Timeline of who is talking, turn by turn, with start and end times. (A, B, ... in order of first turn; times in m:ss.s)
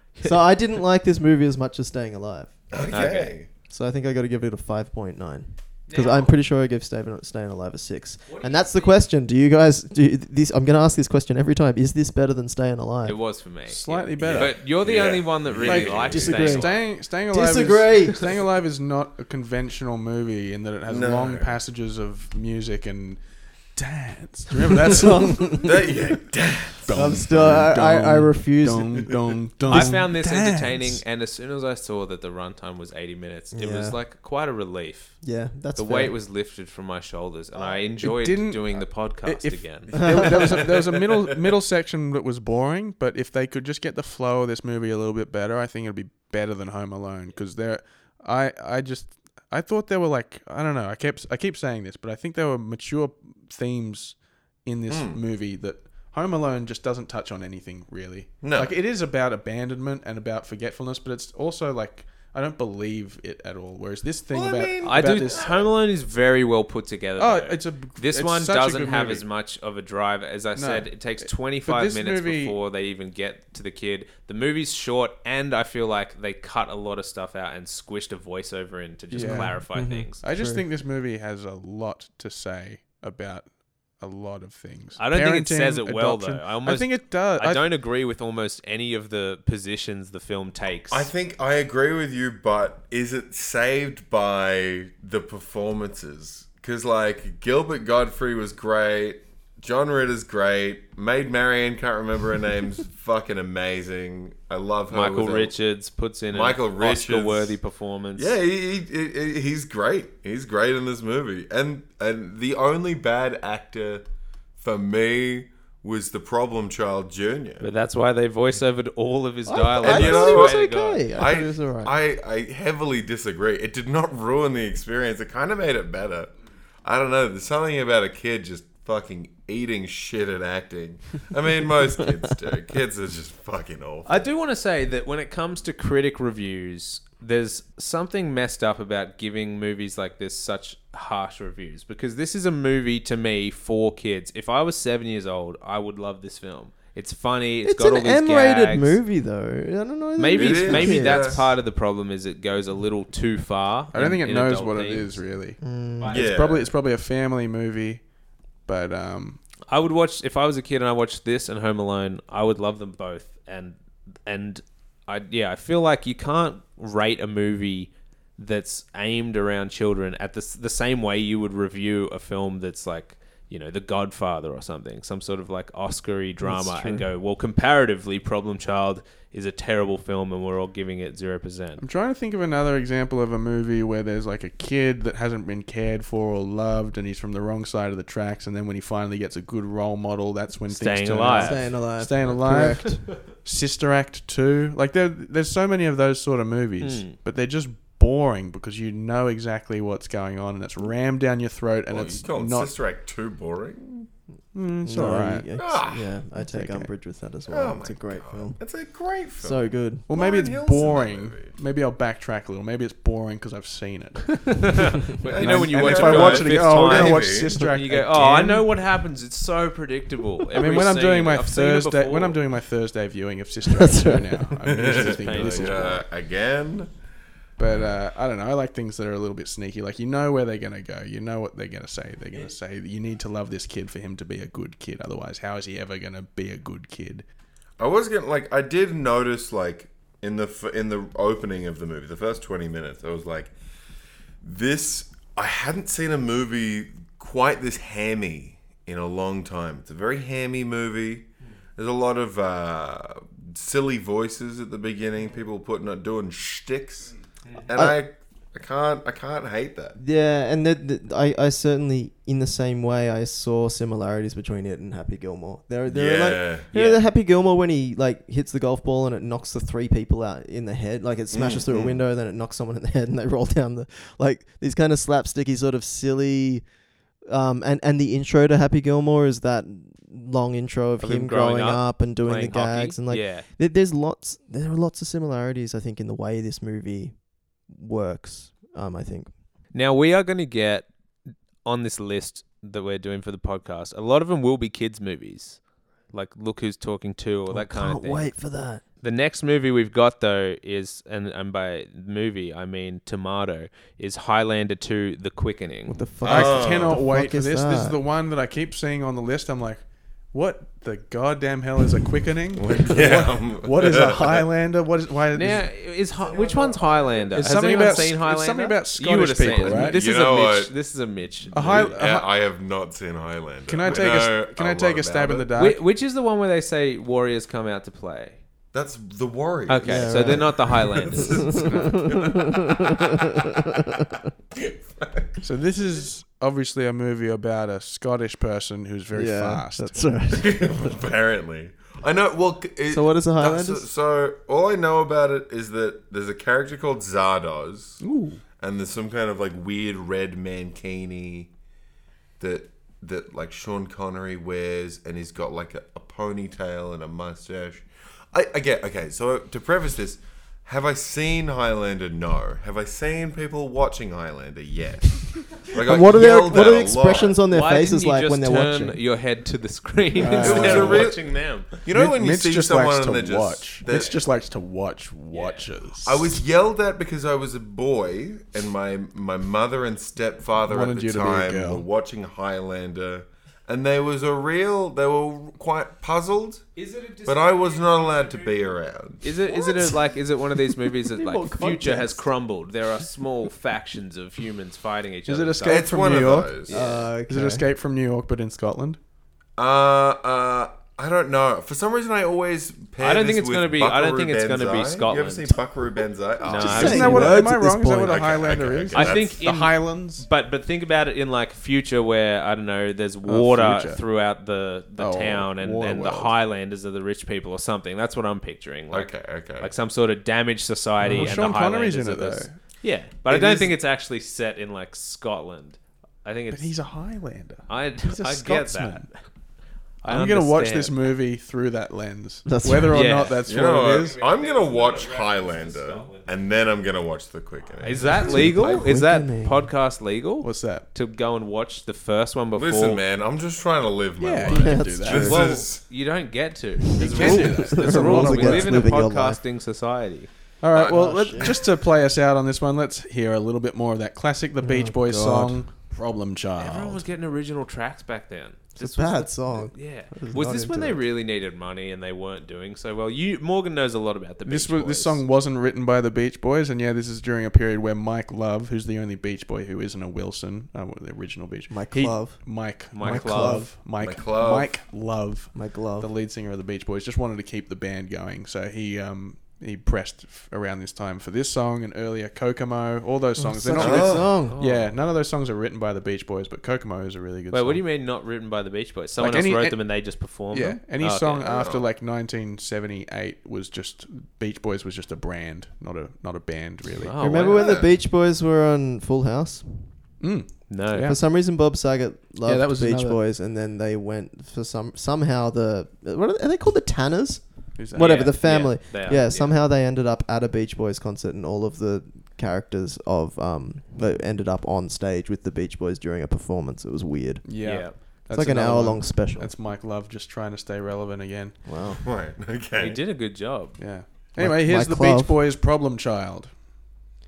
0:00.2-0:00.4 A
0:00.2-0:03.1 B
0:02.7-0:03.5 C
0:02.9-0:03.4 A
0:03.7-0:13.2 B
0:05.9-0:06.3 A
0:08.3-0:09.0 A
0:13.0-0:16.8 A
0:13.7-0:14.6 D
0:14.2-0:16.5 C
0:15.6-0:23.2 D
0:16.1-0:18.4 B
0:20.9-0:21.6 C
0:23.8-0:25.7 D
0:24.8-0:26.0 B
0:25.6-0:27.2 C
0:26.9-0:31.0 D
0:26.9-0:29.1 B
0:29.7-0:35.2 A
0:29.7-0:30.0 B
0:33.5-0:34.0 B
0:35.2-0:36.2 B
0:35.7-0:40.0 A
0:38.0-1:05.4 D
0:39.9-0:41.2 C
0:40.0-0:40.4 B
0:54.9-0:55.2 C
0:58.4-0:58.7 C
1:04.3-1:05.7 C
1:04.8-1:20.2 A
1:07.2-1:09.2 D
1:10.6-1:12.6 D
1:19.1-1:20.6 B
1:19.1-1:19.6 D
1:20.2-1:23.5 D
1:24.0-1:27.6 D
1:25.0-1:31.1 A
1:30.9-1:45.6 C
1:44.9-1:48.4 A
1:46.3-1:47.6 C
1:48.2-1:54.1 C
1:54.6-1:57.7 C
1:57.6-2:01.3 A
1:59.5-2:02.0 B
1:59.8-2:14.2 C
2:14.1-2:29.0 A
2:27.6-2:31.4 B
2:30.2-2:35.2 A
2:30.3-2:31.5 C
2:33.9-2:38.0 D
2:35.6-2:36.2 B
2:36.0-2:36.3 A
2:36.1-2:36.7 C
2:38.7-2:39.4 D
2:39.7-3:01.8 A
2:56.4-2:57.1 D
3:01.8-3:22.7 D
3:10.7-3:11.6 A
3:11.3-3:13.1 B
3:16.8-3:17.2 A
3:21.9-3:24.1 C
3:24.5-3:25.5 D
3:24.8-3:28.6 B
3:25.6-3:26.1 C
3:26.4-3:26.9 D
3:27.5-3:31.5 C
3:29.4-3:30.1 B
3:30.1-3:38.7 D
3:34.5-3:42.4 A
3:35.2-3:37.5 C
3:40.6-3:46.0 D
3:43.7-3:44.6 B
3:44.6-3:46.9 C
3:44.9-3:46.0 A
3:47.6-3:57.3 D
3:47.7-3:47.9 C
3:57.8-4:03.5 C
4:04.4-4:20.0 C
4:17.7-4:18.0 B
4:20.0-4:36.6 B
4:25.9-4:26.7 C
4:26.7-4:27.0 A
4:31.3-4:32.0 C
4:37.3-4:49.3 B
4:41.0-4:43.5 A
4:49.7-4:50.9 A
4:51.6-4:55.6 A
4:56.1-4:58.3 A
4:57.5-4:58.8 B
4:59.0-5:06.0 A
5:05.9-5:08.0 B
5:06.2-5:15.7 D
5:06.2-5:07.0 C
5:12.6-5:14.4 C
5:15.3-5:22.0 A
5:16.2-5:18.1 C
5:17.4-5:20.0 D
5:19.5-5:20.8 C
5:21.5-5:25.5 C
5:21.5-5:22.3 D
5:23.7-5:25.8 D
5:25.6-5:28.4 A
5:28.7-5:33.2 C
5:29.7-5:31.7 A
5:29.8-5:34.2 B
5:34.5-5:35.4 C
5:35.4-5:40.0 D
5:39.1-5:41.0 B
5:40.3-5:48.0 C
5:42.9-5:43.9 B
5:48.0-5:48.4 D
5:48.6-5:51.5 C
5:52.4-6:07.4 C
6:05.8-6:09.0 B
6:07.5-6:11.8 A
6:10.2-6:11.1 D
6:10.3-6:14.2 C
6:11.9-6:16.4 D
6:15.3-6:15.7 A
6:16.1-6:26.7 C
6:20.7-6:21.9 D
6:26.8-6:28.5 A
6:27.2-6:29.3 C
6:29.2-6:35.9 A
6:29.5-6:30.1 B
6:30.7-6:32.3 B
6:35.3-6:36.6 D
6:35.6-6:36.8 C
6:36.7-6:37.1 A
6:36.7-6:37.7 B
6:37.3-6:39.0 D
6:39.6-6:47.5 C
6:43.0-6:45.5 A
6:46.4-6:47.3 A
6:46.6-6:48.3 B
6:46.6-6:50.2 D
6:48.0-6:49.4 C
6:48.9-7:06.7 A
6:53.2-6:54.0 D
6:55.0-6:56.3 D
6:58.9-6:59.7 C
7:01.0-7:02.6 D
7:03.3-7:03.8 D
7:06.5-7:09.1 D
7:07.7-7:09.2 A
7:10.0-7:11.0 A
7:10.1-7:14.2 D
7:12.5-7:13.1 B
7:12.9-7:13.4 A
7:13.5-7:18.9 C
7:14.0-7:16.2 A
7:17.8-7:23.0 A
7:18.0-7:19.7 B
7:20.4-7:20.9 D
7:22.6-7:25.8 C
7:24.2-7:25.4 D
7:24.4-7:25.6 B
7:25.2-7:30.3 A
7:26.9-7:29.4 B
7:27.0-7:28.9 D
7:30.6-7:37.0 D
7:30.8-7:31.6 C
7:30.8-7:31.6 B
7:34.6-7:35.6 B
7:36.6-7:45.2 A
7:38.8-7:41.0 B
7:44.5-8:07.8 D
7:51.7-7:52.4 B
7:52.9-7:53.7 A
7:53.0-7:53.7 B
7:54.0-7:54.8 C
7:55.5-7:56.1 B
8:03.4-8:04.6 B
8:03.8-8:04.3 C
8:04.4-8:04.9 A
8:07.5-8:11.5 A
8:09.2-8:09.8 D
8:10.5-8:17.2 D
8:11.4-8:11.9 C
8:17.0-8:17.8 A
8:17.2-8:19.9 B
8:17.5-8:17.9 C
8:20.2-8:21.2 D
8:20.7-8:21.1 A
8:21.0-8:39.5 B
8:22.4-8:23.2 D
8:27.8-8:28.3 D
8:28.0-8:29.5 A
8:37.4-8:41.6 D
8:37.6-8:38.0 A
8:41.6-8:42.0 B
8:41.9-8:43.0 C
8:42.8-8:43.8 A
8:43.8-8:46.5 D
8:44.4-8:45.4 B